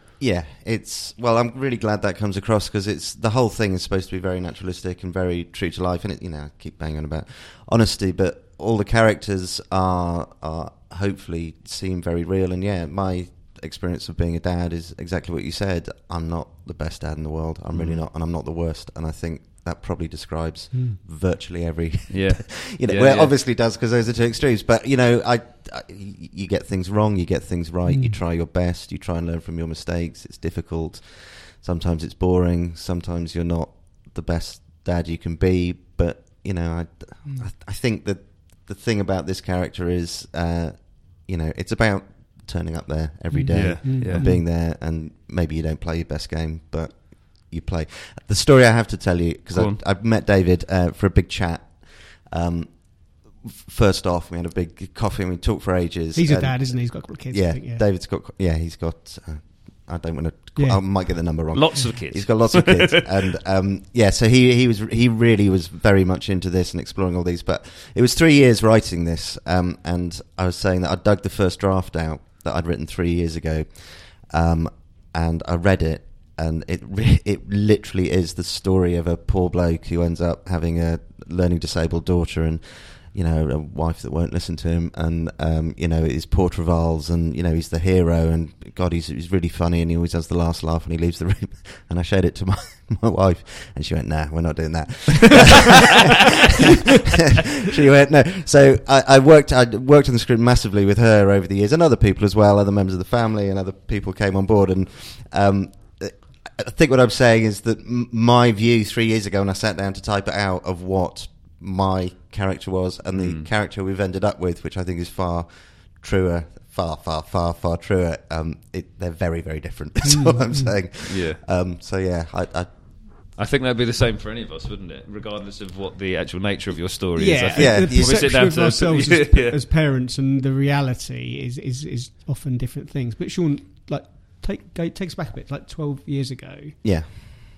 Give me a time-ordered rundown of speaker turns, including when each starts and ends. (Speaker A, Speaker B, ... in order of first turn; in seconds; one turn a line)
Speaker A: 0.2-96.2
Speaker B: 17.7-18.0
Speaker C: 20.7-21.0
Speaker B: 22.1-23.3
Speaker C: 27.9-28.2
Speaker C: 37.2-37.5
Speaker C: 43.3-44.5
Speaker B: 43.5-44.3
Speaker B: 49.5-49.8
Speaker C: 56.1-57.9
Speaker C: 60.5-61.5
Speaker B: 61.5-63.0
Speaker A: 97.2-123.3
Speaker B: 113.1-113.5
Speaker C: 120.0-120.8
Speaker B: 121.0-121.4
Speaker B: 123.3-129.6
Speaker C: 127.2-137.2
Speaker A: 127.5-128.3
Speaker A: 136.8-137.4